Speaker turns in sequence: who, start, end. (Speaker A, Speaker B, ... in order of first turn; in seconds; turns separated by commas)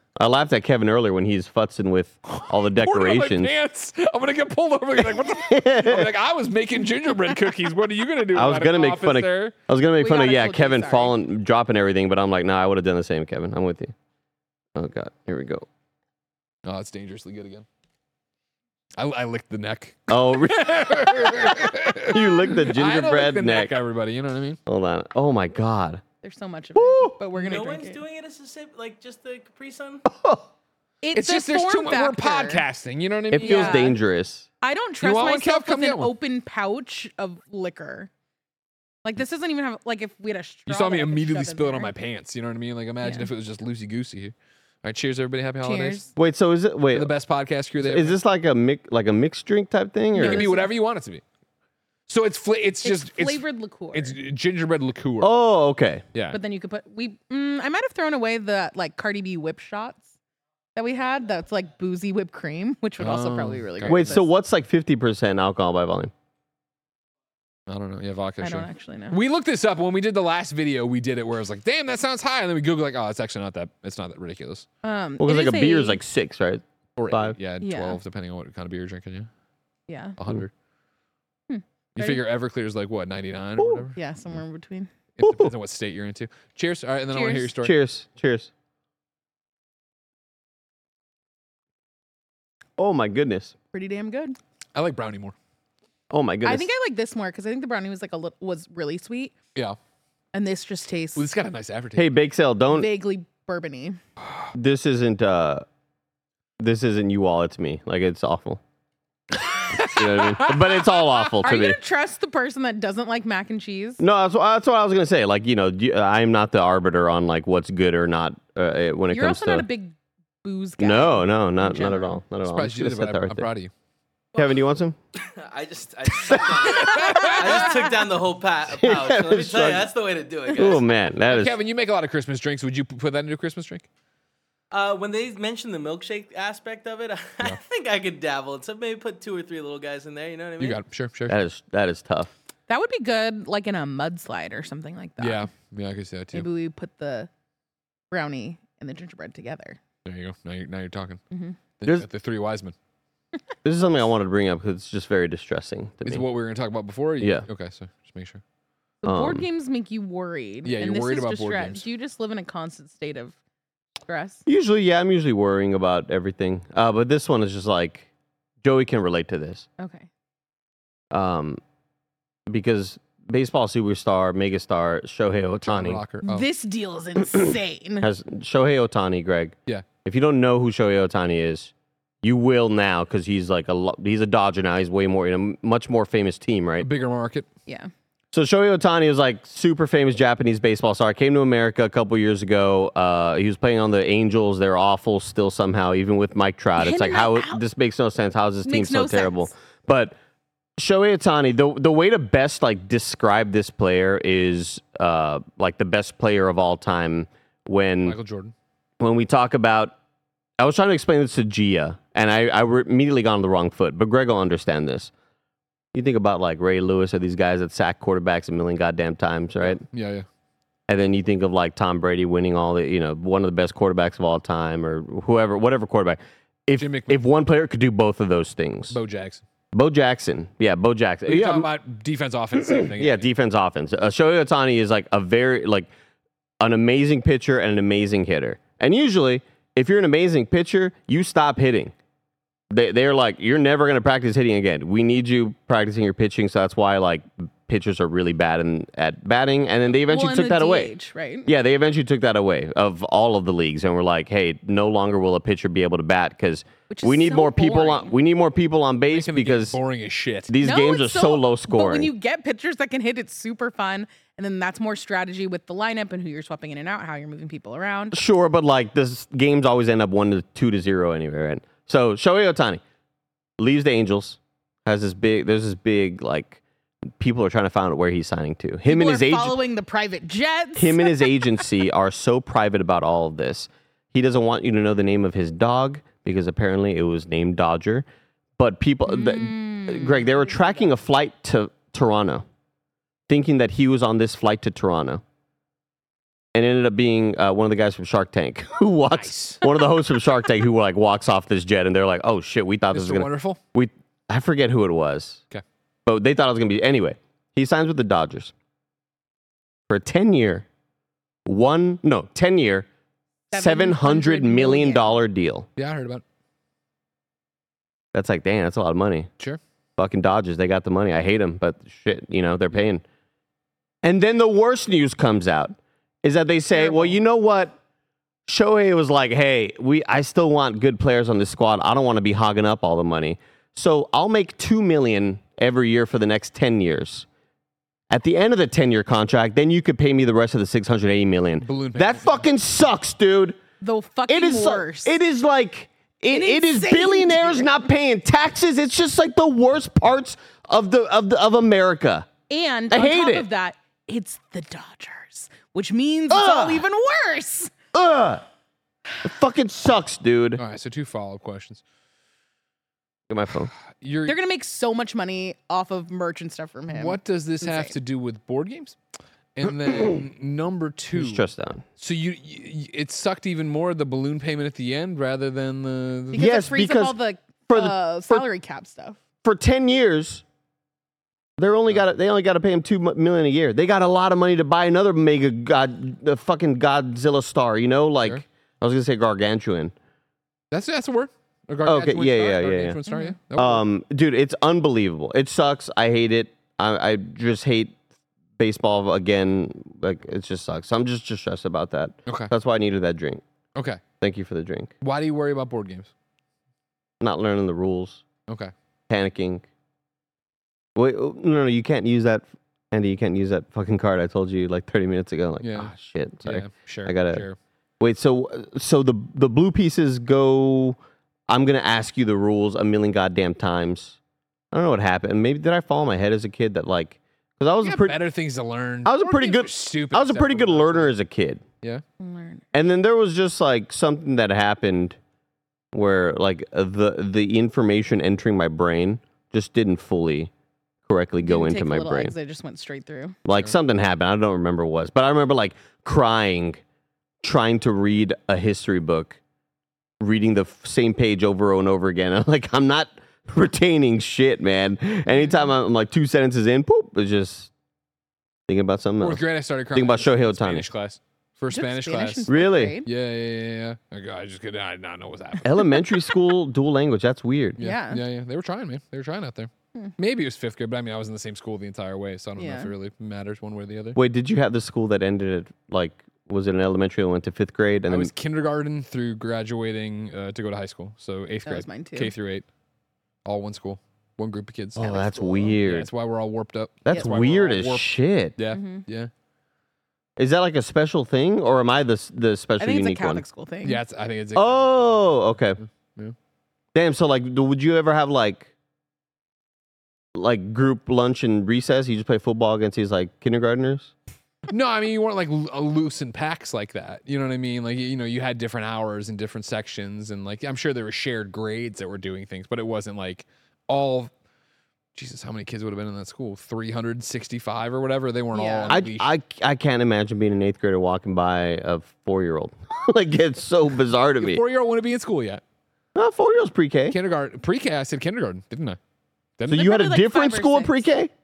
Speaker A: 0.2-3.5, Speaker B: 2.3-9.5, Speaker A: 5.1-6.1, Speaker A: 8.3-13.9, Speaker C: 10.0-11.1, Speaker A: 14.7-15.7, Speaker B: 16.6-17.6, Speaker B: 19.0-24.6, Speaker A: 20.1-23.7, Speaker A: 24.7-26.0, Speaker C: 26.2-28.0, Speaker A: 26.8-27.1, Speaker D: 27.3-30.1, Speaker A: 30.1-30.4, Speaker C: 31.0-32.6, Speaker B: 31.1-33.9, Speaker A: 33.3-34.5, Speaker C: 33.4-34.0, Speaker C: 34.6-38.1, Speaker B: 35.0-36.1, Speaker C: 39.0-41.9, Speaker B: 40.7-46.0, Speaker C: 43.0-43.3, Speaker C: 45.6-46.1, Speaker A: 46.1-47.1, Speaker B: 46.9-48.2, Speaker A: 47.8-50.5, Speaker C: 50.1-50.7, Speaker B: 50.2-51.2, Speaker B: 52.1-55.3, Speaker C: 52.8-54.2, Speaker A: 55.2-56.0, Speaker C: 56.3-60.1, Speaker C: 60.7-64.3, Speaker B: 63.0-64.1, Speaker A: 63.9-66.1, Speaker B: 67.7-74.7, Speaker C: 68.4-69.2, Speaker C: 74.8-76.0, Speaker A: 75.2-77.3, Speaker B: 77.0-79.3, Speaker C: 77.6-78.0, Speaker C: 79.9-80.2, Speaker B: 80.2-80.5, Speaker C: 81.5-82.2, Speaker B: 82.0-84.0, Speaker C: 84.0-84.9, Speaker B: 85.2-87.7, Speaker A: 85.2-85.5, Speaker C: 87.1-87.5, Speaker A: 87.6-88.5, Speaker A: 92.8-93.5, Speaker C: 93.7-94.4, Speaker B: 94.7-95.3, Speaker A: 96.1-96.7, Speaker C: 96.4-99.3, Speaker C: 100.3-101.2, Speaker B: 101.2-102.1, Speaker A: 102.0-102.9, Speaker C: 102.7-104.0, Speaker A: 104.5-105.6, Speaker A: 106.6-108.6, Speaker B: 109.4-111.3, Speaker A: 109.9-111.8, Speaker C: 111.4-114.0, Speaker A: 114.0-119.7, Speaker C: 119.1-122.1, Speaker A: 120.8-123.5, Speaker B: 121.7-123.7, Speaker A: 124.3-125.0, Speaker D: 125.2-130.8, Speaker A: 126.2-126.8, Speaker B: 126.7-127.7, Speaker A: 128.7-129.9, Speaker A: 130.5-131.6, Speaker B: 131.3-133.8, Speaker D: 134.7-140.8, Speaker B: 140.6-141.4, Speaker A: 141.3-142.3, Speaker C: 142.7-145.5, Speaker B: 145.2-146.5, Speaker C: 146.3-147.3, Speaker C: 148.1-149.8, Speaker B: 150.0-151.2, Speaker B: 151.8-152.7, Speaker A: 153.6-156.2, Speaker B: 156.0-158.4, Speaker A: 157.2-157.4, Speaker C: 159.0-163.3, Speaker A: 159.0-159.4, Speaker B: 160.6-161.8, Speaker C: 164.1-164.4, Speaker A: 164.4-168.1, Speaker A: 168.6-169.7, Speaker C: 169.8-170.1, Speaker A: 171.1-171.6, Speaker A: 172.5-176.0, Speaker B: 175.7-176.5, Speaker C: 176.2-178.1, Speaker A: 178.0-181.7, Speaker A: 182.2-186.9, Speaker B: 186.8-187.5, Speaker A: 188.3-200.2, Speaker C: 196.8-197.6, Speaker C: 198.6-199.5, Speaker A: 200.8-208.2, Speaker B: 208.0-208.5, Speaker A: 209.0-209.9, Speaker A: 210.6-215.1, Speaker A: 215.9-219.8, Speaker B: 219.6-220.2, Speaker A: 220.9-229.0, Speaker B: 226.8-227.2, Speaker B: 228.9-229.4, Speaker A: 229.7-231.7, Speaker B: 231.2-233.3, Speaker A: 232.7-235.9, Speaker A: 236.6-241.9, Speaker A: 242.7-250.9, Speaker C: 250.0-251.5, Speaker A: 251.4-259.8, Speaker C: 256.9-258.1, Speaker B: 259.1-260.5, Speaker A: 260.5-262.1, Speaker C: 260.6-268.2, Speaker A: 268.1-272.8, Speaker A: 273.6-276.6, Speaker A: 277.2-279.6, Speaker C: 278.9-281.4, Speaker A: 280.8-288.1, Speaker A: 288.6-292.4, Speaker C: 289.1-290.6, Speaker A: 293.3-295.2, Speaker A: 296.5-305.4, Speaker B: 299.1-299.6, Speaker B: 302.9-303.6, Speaker A: 306.1-308.5, Speaker A: 309.9-310.6, Speaker A: 311.4-312.9, Speaker C: 313.5-315.2, Speaker A: 313.5-315.7, Speaker B: 315.8-316.2, Speaker A: 318.1-319.3, Speaker A: 320.0-323.0, Speaker A: 324.0-327.8, Speaker C: 326.8-327.1, Speaker A: 328.5-337.2, Speaker A: 338.1-343.6, Speaker B: 341.6-342.4, Speaker C: 343.8-345.2, Speaker A: 344.3-352.3, Speaker C: 346.3-347.7, Speaker C: 352.5-357.7, Speaker A: 352.9-353.5, Speaker A: 356.3-356.9, Speaker A: 357.9-358.4, Speaker A: 359.2-360.6, Speaker B: 360.6-361.8, Speaker A: 363.3-363.7, Speaker B: 363.9-364.4, Speaker C: 364.3-367.9, Speaker B: 366.9-369.0, Speaker B: 369.6-371.4, Speaker A: 371.1-371.8, Speaker B: 372.0-376.4, Speaker C: 376.3-379.2, Speaker A: 376.3-377.2, Speaker A: 377.7-378.4, Speaker A: 379.4-380.4, Speaker A: 381.6-389.9, Speaker B: 390.7-393.8, Speaker A: 391.8-393.0, Speaker C: 393.1-393.4, Speaker A: 393.5-398.0, Speaker A: 398.6-403.4, Speaker B: 403.8-404.0, Speaker A: 404.2-404.9, Speaker B: 405.0-406.1, Speaker A: 407.2-408.2, Speaker A: 409.1-409.6, Speaker A: 410.9-417.4, Speaker B: 415.6-417.6, Speaker A: 418.0-424.1, Speaker A: 424.7-428.2, Speaker B: 427.8-431.1, Speaker A: 429.0-431.6, Speaker C: 432.2-432.6, Speaker A: 432.7-435.2, Speaker A: 435.9-440.5, Speaker A: 441.1-442.3, Speaker C: 441.4-443.4, Speaker A: 443.4-446.8, Speaker A: 447.4-449.4, Speaker A: 450.2-457.7, Speaker C: 455.3-455.6, Speaker A: 458.7-460.9, Speaker B: 459.2-465.8, Speaker C: 461.7-463.1, Speaker A: 462.5-463.0, Speaker A: 465.6-467.8, Speaker C: 467.8-468.2, Speaker B: 467.8-474.2, Speaker C: 472.6-472.9, Speaker A: 474.1-478.3, Speaker B: 478.1-482.6, Speaker C: 481.6-482.3, Speaker B: 483.4-485.3, Speaker A: 484.9-486.1, Speaker B: 485.8-489.3, Speaker A: 487.0-488.5, Speaker C: 488.7-489.0, Speaker A: 490.4-493.4, Speaker C: 492.8-494.0, Speaker B: 493.8-495.2, Speaker A: 494.5-495.8, Speaker B: 495.8-496.3, Speaker A: 496.9-498.7, Speaker A: 500.3-504.1, Speaker B: 504.7-514.3, Speaker B: 515.1-519.3, Speaker C: 518.5-518.9, Speaker A: 518.9-524.6, Speaker B: 524.4-525.6, Speaker A: 526.1-527.1, Speaker B: 527.1-529.0, Speaker B: 529.6-529.9, Speaker A: 529.7-531.3, Speaker C: 529.7-531.0